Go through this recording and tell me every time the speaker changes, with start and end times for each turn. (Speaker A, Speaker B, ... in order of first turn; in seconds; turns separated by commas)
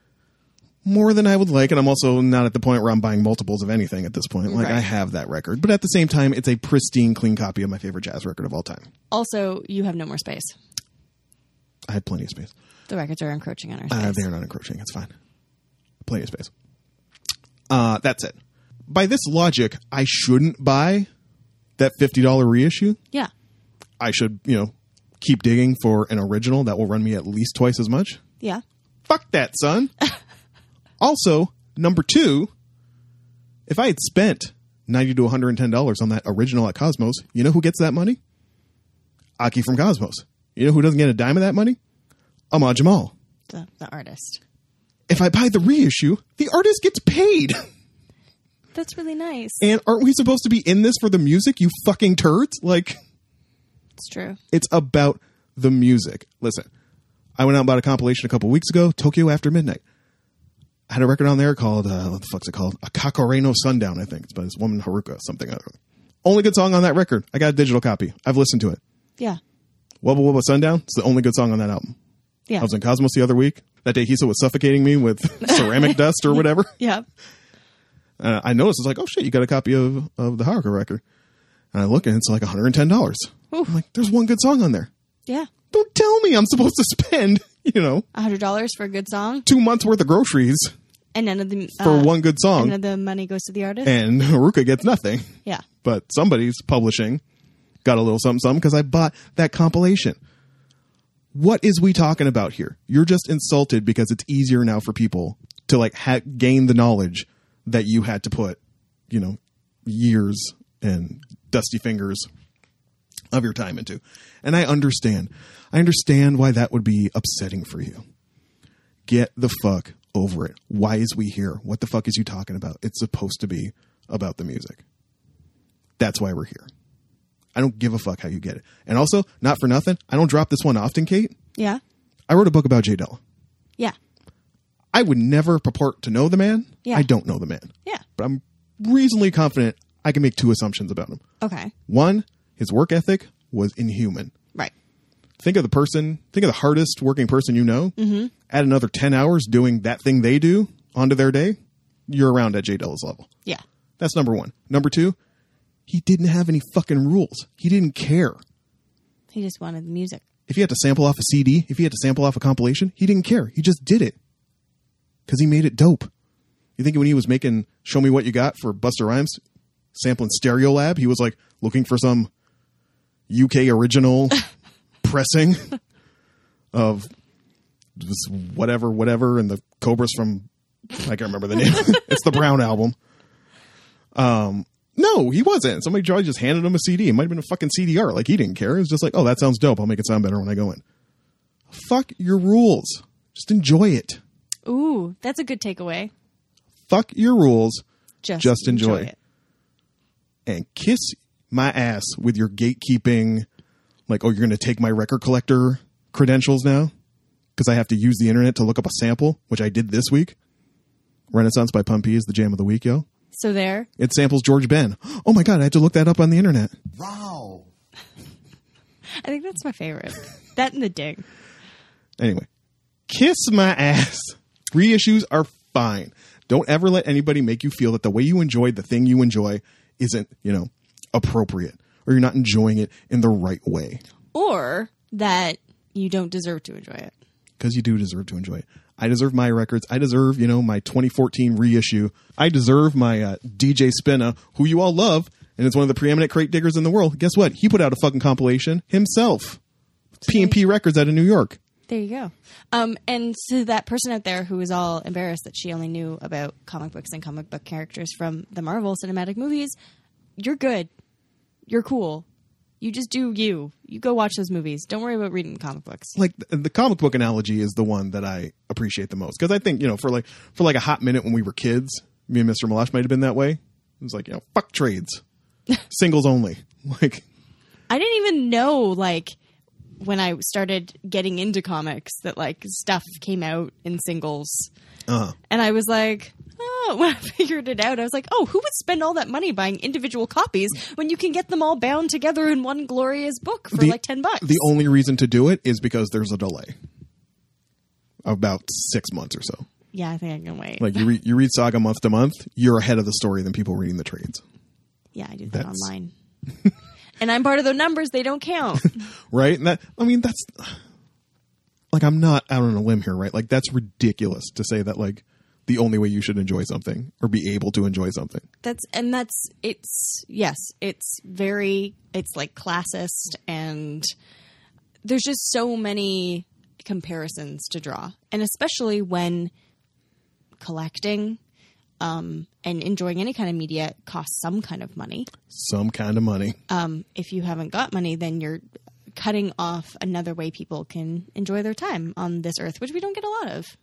Speaker A: 0.8-8.9, Speaker B: 4.5-4.8, Speaker B: 9.1-10.6, Speaker A: 11.9-12.5, Speaker B: 12.9-14.2, Speaker A: 13.9-15.1, Speaker A: 16.0-16.5, Speaker A: 17.7-21.1, Speaker A: 21.8-23.0, Speaker A: 24.0-28.2, Speaker A: 29.1-29.9, Speaker A: 31.0-32.5, Speaker A: 33.7-38.2, Speaker A: 39.4-41.8, Speaker A: 42.5-43.1, Speaker B: 43.5-44.4, Speaker A: 45.1-47.7, Speaker B: 48.7-49.7, Speaker A: 49.6-53.0, Speaker B: 54.0-54.4, Speaker A: 54.5-56.7, Speaker A: 57.4-59.8, Speaker A: 60.9-68.8, Speaker A: 70.0-72.0, Speaker A: 72.6-76.7, Speaker B: 75.4-77.1, Speaker A: 78.2-81.0, Speaker A: 81.7-84.9, Speaker A: 85.7-88.1, Speaker B: 88.1-89.5, Speaker A: 89.5-90.7, Speaker B: 91.2-94.0, Speaker A: 91.8-92.8, Speaker A: 93.8-97.2, Speaker A: 97.8-100.2, Speaker A: 101.3-108.6, Speaker A: 109.1-112.3, Speaker A: 113.3-118.0, Speaker A: 119.1-124.8, Speaker A: 126.0-126.7, Speaker A: 127.5-131.3, Speaker A: 132.3-133.2, Speaker A: 134.9-141.2, Speaker B: 141.4-141.7, Speaker A: 141.9-144.3, Speaker A: 145.4-147.9, Speaker B: 148.0-148.3, Speaker A: 148.5-151.6, Speaker A: 152.1-153.3, Speaker A: 154.0-155.2, Speaker A: 155.9-158.4, Speaker B: 159.3-160.2, Speaker A: 160.5-164.2, Speaker A: 165.3-166.1, Speaker A: 166.8-169.4, Speaker A: 169.9-172.3, Speaker A: 173.3-174.4, Speaker A: 175.0-175.8, Speaker A: 176.7-177.1, Speaker A: 178.0-180.5, Speaker A: 181.0-183.0, Speaker A: 184.1-190.8, Speaker A: 191.7-194.2, Speaker B: 194.7-196.1, Speaker A: 196.9-197.8, Speaker B: 198.2-199.2, Speaker A: 198.4-199.1, Speaker A: 200.5-203.5, Speaker A: 204.1-206.9, Speaker A: 207.6-210.4, Speaker A: 211.3-213.1, Speaker B: 213.3-213.9, Speaker A: 214.0-216.8, Speaker B: 219.2-221.2, Speaker A: 222.2-222.5, Speaker A: 223.1-234.0, Speaker B: 234.3-237.1, Speaker A: 237.6-249.6, Speaker A: 250.2-251.6, Speaker B: 250.3-250.6, Speaker B: 251.9-259.8, Speaker B: 260.4-260.9, Speaker B: 261.7-262.3, Speaker B: 262.8-266.2, Speaker A: 266.2-275.2, Speaker A: 275.9-277.2, Speaker B: 277.9-279.4, Speaker B: 280.0-284.7, Speaker A: 285.1-285.4, Speaker B: 285.5-294.7, Speaker A: 293.7-296.8, Speaker A: 298.2-299.7, Speaker B: 299.9-301.0, Speaker A: 300.8-304.4, Speaker B: 305.1-306.1, Speaker A: 305.5-305.9, Speaker B: 307.2-309.1, Speaker A: 309.3-310.8, Speaker A: 311.9-318.5, Speaker B: 318.6-324.1, Speaker B: 325.0-329.5, Speaker B: 330.6-331.4, Speaker B: 332.0-335.3, Speaker A: 335.5-336.6, Speaker B: 336.7-338.6, Speaker B: 339.1-343.8